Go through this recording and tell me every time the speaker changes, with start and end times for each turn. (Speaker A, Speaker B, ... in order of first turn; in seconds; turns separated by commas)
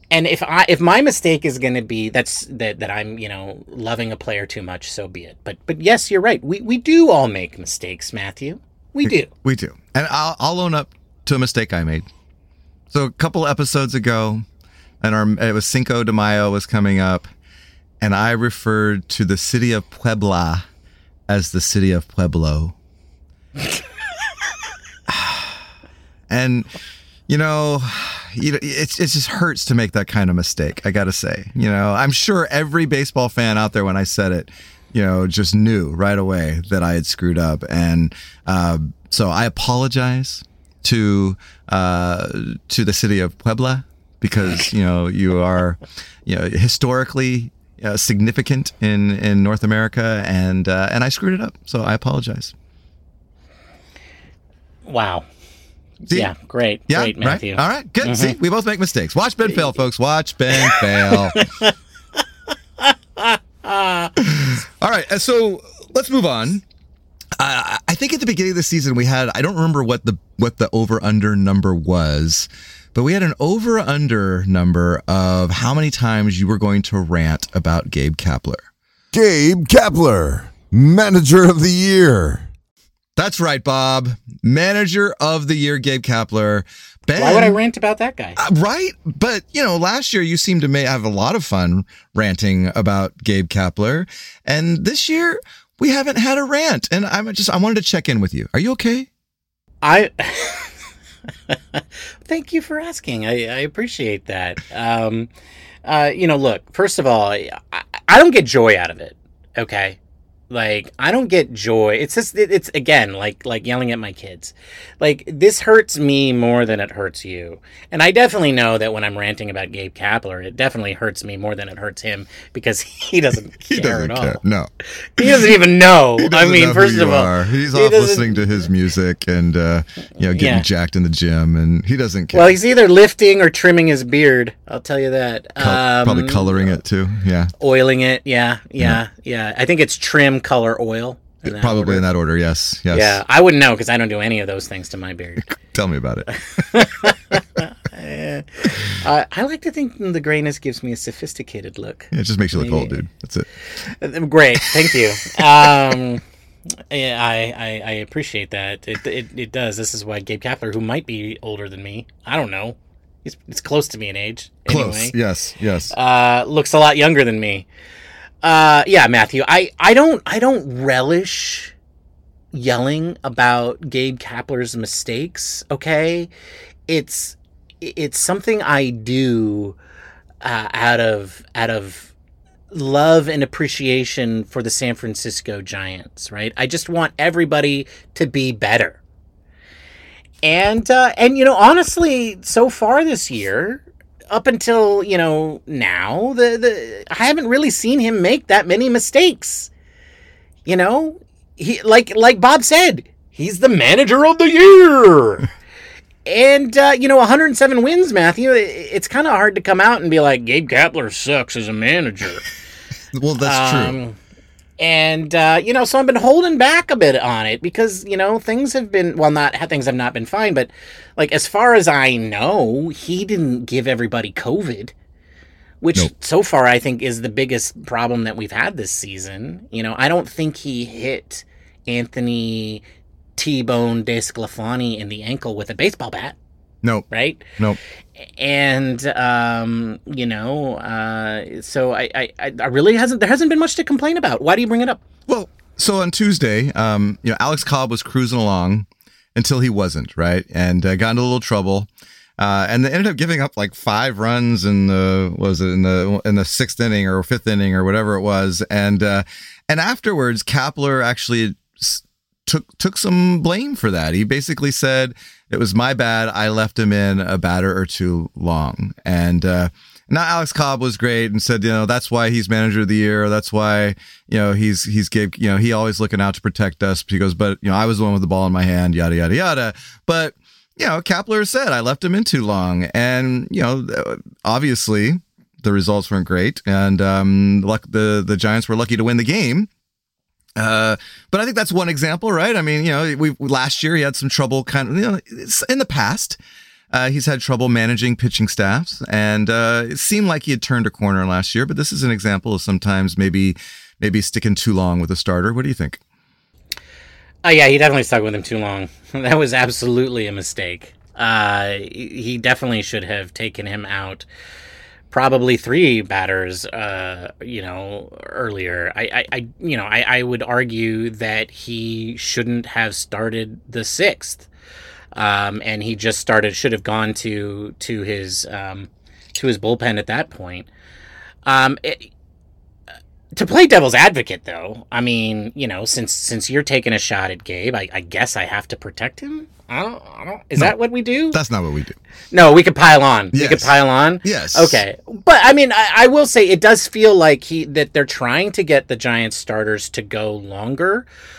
Speaker A: 0.1-9.3, Speaker B: 9.0-12.1, Speaker B: 12.9-14.4, Speaker B: 15.0-17.3, Speaker B: 18.0-20.7, Speaker B: 21.3-22.8, Speaker B: 25.1-25.4, Speaker B: 26.3-26.7, Speaker B: 27.3-52.5, Speaker A: 54.9-55.2, Speaker B: 56.1-56.3, Speaker A: 56.1-58.4, Speaker B: 56.9-61.4, Speaker A: 60.5-61.7, Speaker A: 62.8-64.1, Speaker B: 64.2-66.6, Speaker B: 67.4-78.6, Speaker C: 79.1-82.5, Speaker B: 83.2-87.6, Speaker A: 87.2-88.4, Speaker B: 88.4-99.1, Speaker A: 99.8-100.8, Speaker A: 101.5-105.3, Speaker A: 105.8-110.0, Speaker A: 110.5-124.4, Speaker B: 123.7-125.5, Speaker A: 125.2-128.4, Speaker B: 126.2-132.6, Speaker A: 130.3-130.7, Speaker A: 132.3-136.8, Speaker B: 135.6-137.5, Speaker A: 137.6-142.0, Speaker B: 141.4-143.2, Speaker A: 142.9-145.6, Speaker B: 145.5-146.6, Speaker A: 146.3-152.9, Speaker B: 152.1-153.5, Speaker A: 154.0-156.2, Speaker B: 155.4-155.7, Speaker A: 156.9-165.2, Speaker B: 164.7-165.9, Speaker A: 165.9-167.7, Speaker A: 168.4-171.7, Speaker A: 172.5-176.3, Speaker A: 176.9-179.8, Speaker A: 180.4-182.1, Speaker A: 182.7-189.0, Speaker A: 190.4-199.7, Speaker A: 200.7-205.5, Speaker A: 206.2-212.5, Speaker B: 213.1-214.0, Speaker A: 213.4-214.2, Speaker A: 214.8-224.9, Speaker A: 225.8-232.8, Speaker A: 233.4-236.4, Speaker B: 236.8-237.8, Speaker A: 237.1-237.5, Speaker A: 238.4-245.0, Speaker B: 245.3-251.9, Speaker B: 252.4-289.7, Speaker B: 290.6-296.4, Speaker B: 296.9-306.0, Speaker A: 307.4-314.3, Speaker A: 315.1-324.5, Speaker A: 325.1-330.7, Speaker A: 331.5-332.1, Speaker A: 333.4-341.4, Speaker B: 341.3-342.0, Speaker A: 342.3-351.1, Speaker B: 343.3-344.8